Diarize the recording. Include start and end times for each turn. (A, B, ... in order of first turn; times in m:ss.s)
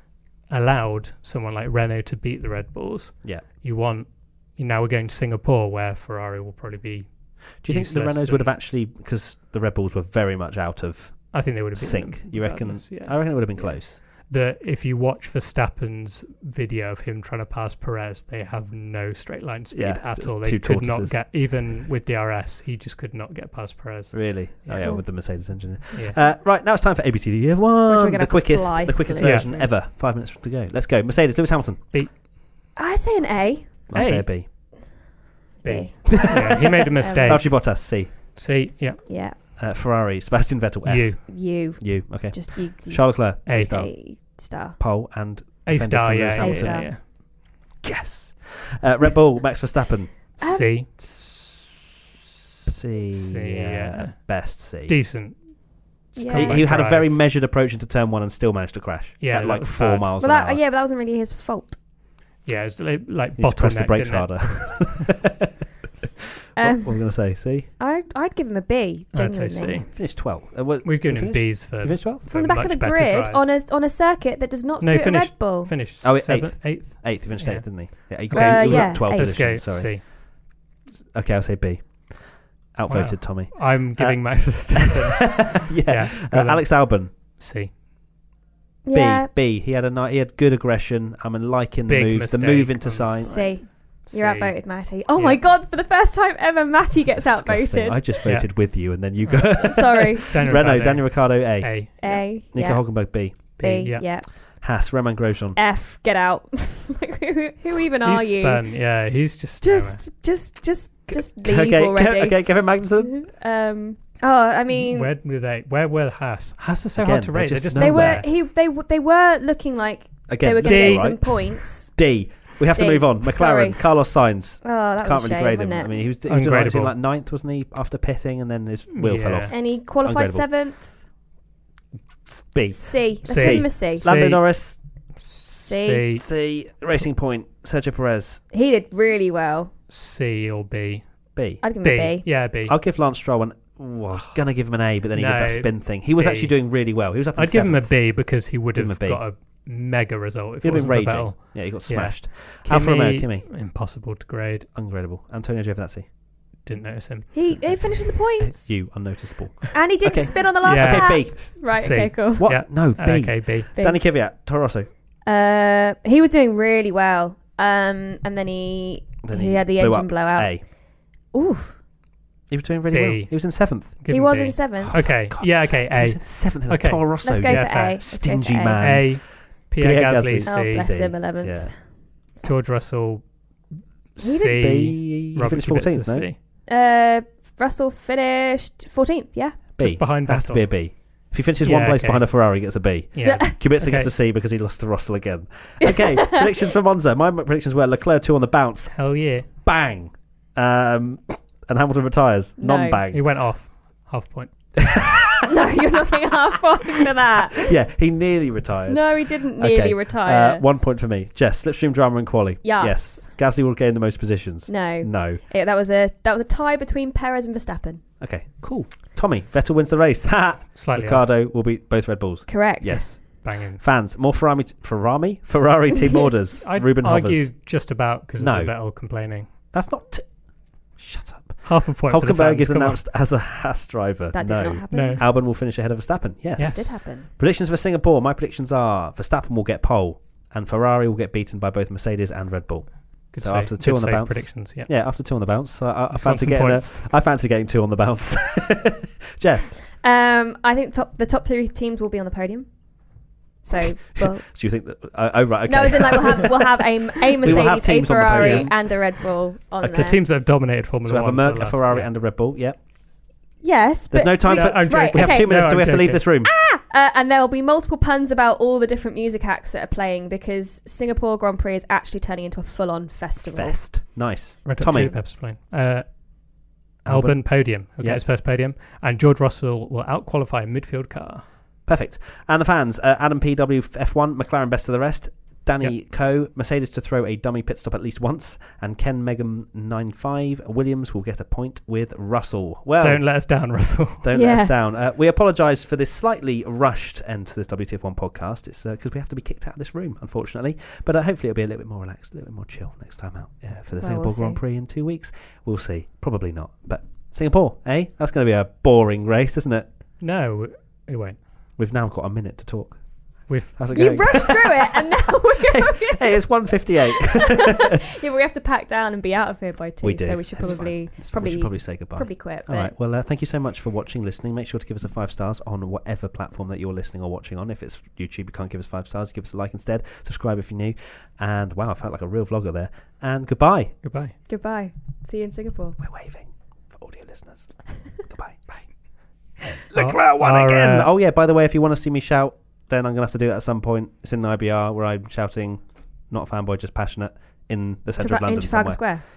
0:00.5-0:08.5 A
0:07.6-0:14.0 B
0:11.3-0:24.9 A
0:19.7-0:21.2 B
0:24.1-0:31.9 B
0:25.9-0:26.2 A
0:27.9-0:29.7 C
0:29.2-0:29.5 A
0:32.8-0:33.7 C
0:33.9-0:34.5 B
0:33.9-0:34.3 A
0:35.6-0:37.4 C
0:35.6-0:39.0 A
0:36.1-0:36.6 B
0:37.2-0:38.1 B
0:39.0-0:39.4 C
0:39.6-0:43.9 B
0:40.8-0:41.2 A
0:41.3-0:44.8 C
0:43.4-0:43.8 A
0:44.8-0:47.1 B
0:45.6-0:47.0 A
0:46.4-0:46.9 C
0:47.8-0:51.8 B
0:50.4-0:50.7 C
0:50.4-0:50.9 A
0:52.6-0:55.0 B
0:53.1-0:57.1 A
0:56.1-0:56.6 C
0:56.2-1:00.6 B
0:59.2-1:00.1 A
1:00.2-1:01.8 C
1:02.4-1:04.9 A
1:03.4-1:05.5 B
1:06.6-1:09.8 C
1:06.6-1:07.7 B
1:09.1-1:13.4 A
1:09.9-1:12.2 B
1:12.3-1:15.7 C
1:14.8-1:20.0 A
1:16.0-1:20.4 B
1:18.3-1:19.4 C
1:21.1-1:27.1 B
1:22.9-1:27.7 A
1:28.8-1:29.3 C
1:28.9-1:33.4 B
1:31.9-1:35.4 A
1:33.3-1:38.4 C
1:37.1-1:43.6 B
1:38.2-1:39.5 A
1:39.6-1:40.6 C
1:40.3-1:42.2 A
1:42.0-1:44.3 C
1:43.6-1:44.0 A
1:44.6-1:45.6 B
1:45.5-1:48.6 C
1:48.0-1:50.0 A
1:49.6-1:55.1 C
1:51.1-1:53.2 B
1:54.7-1:58.2 A
1:57.0-1:58.2 B
1:57.8-2:01.9 C
2:00.3-2:10.5 B
2:00.6-2:01.2 A
2:02.7-2:03.8 C
2:04.6-2:06.0 C
2:06.3-2:06.9 A
2:08.9-2:09.5 A
2:09.5-2:11.0 C
2:12.3-2:14.8 B
2:12.7-2:14.1 C
2:13.2-2:14.4 A
2:15.2-2:16.2 A
2:15.5-2:16.1 C
2:16.1-2:18.4 B
2:18.5-2:19.7 C
2:19.9-2:21.1 A
2:21.4-2:21.6 B
2:21.6-2:22.2 C
2:21.6-2:22.8 A
2:22.6-2:29.2 B
2:25.1-2:26.7 A
2:27.4-2:34.7 A
2:30.6-2:33.5 B
2:34.7-2:36.1 B
2:36.6-2:37.3 A
2:37.3-2:38.7 C
2:37.5-2:41.5 B
2:39.7-2:42.5 C
2:40.6-2:43.7 A
2:42.4-2:44.9 B
2:43.7-2:44.0 C
2:45.2-2:50.7 C
2:49.2-2:50.6 B
2:51.3-2:51.8 C
2:52.5-2:54.0 B
2:52.9-2:58.1 A
2:54.1-2:55.0 C
2:54.8-3:01.7 B
2:57.2-2:58.9 C
2:58.8-3:00.9 A
3:00.4-3:01.8 C
3:02.4-3:03.3 A
3:04.1-3:06.4 A
3:04.2-3:06.3 B
3:06.7-3:09.6 C
3:09.8-3:23.2 B
3:09.8-3:11.0 A
3:11.6-3:14.1 A
3:13.2-3:13.6 C
3:15.8-3:16.4 C
3:18.9-3:19.5 A
3:22.6-3:23.0 C
3:23.1-3:24.5 A
3:24.8-3:25.5 B
3:25.4-3:27.7 C
3:27.6-3:35.4 B
3:28.9-3:30.6 C
3:32.6-3:33.3 C
3:34.7-3:38.0 C
3:38.2-3:47.5 B
3:40.8-3:41.2 A
3:42.5-3:43.2 C
3:43.4-3:43.8 A
3:45.9-3:46.3 C
3:46.6-3:49.5 A
3:48.4-3:48.7 B
3:49.7-3:50.3 B
3:51.0-4:09.8 B
3:51.6-3:53.0 A
3:54.3-3:55.3 C
3:54.9-3:55.2 A
3:56.6-3:57.0 A
3:56.6-3:57.3 C
4:03.3-4:05.0 A
4:06.1-4:07.0 A
4:10.0-4:12.7 C
4:13.6-4:14.4 C
4:13.7-4:16.8 B
4:15.6-4:20.2 C
4:17.4-4:19.0 B
4:17.4-4:18.7 A
4:19.8-4:22.1 A
4:21.0-4:22.8 B
4:23.6-4:25.8 C
4:24.1-4:26.5 B
4:24.4-4:26.2 A
4:26.4-4:33.8 C
4:33.4-4:35.2 B
4:34.6-4:41.4 A
4:34.9-4:35.2 C
4:37.0-4:38.2 B
4:41.9-4:53.2 B
4:53.0-4:54.2 A
4:54.2-5:09.8 B
4:54.3-4:54.7 C
5:04.0-5:04.6 C
5:10.2-5:11.4 A
5:11.8-5:18.0 B
5:13.5-5:13.8 A
5:13.9-5:22.9 C
5:20.0-5:34.0 B
5:34.0-5:34.3 A
5:34.5-5:36.0 C
5:36.0-5:37.7 B
5:38.2-5:38.6 B
5:39.9-5:49.1 B
5:39.9-5:41.1 A
5:48.2-5:49.2 C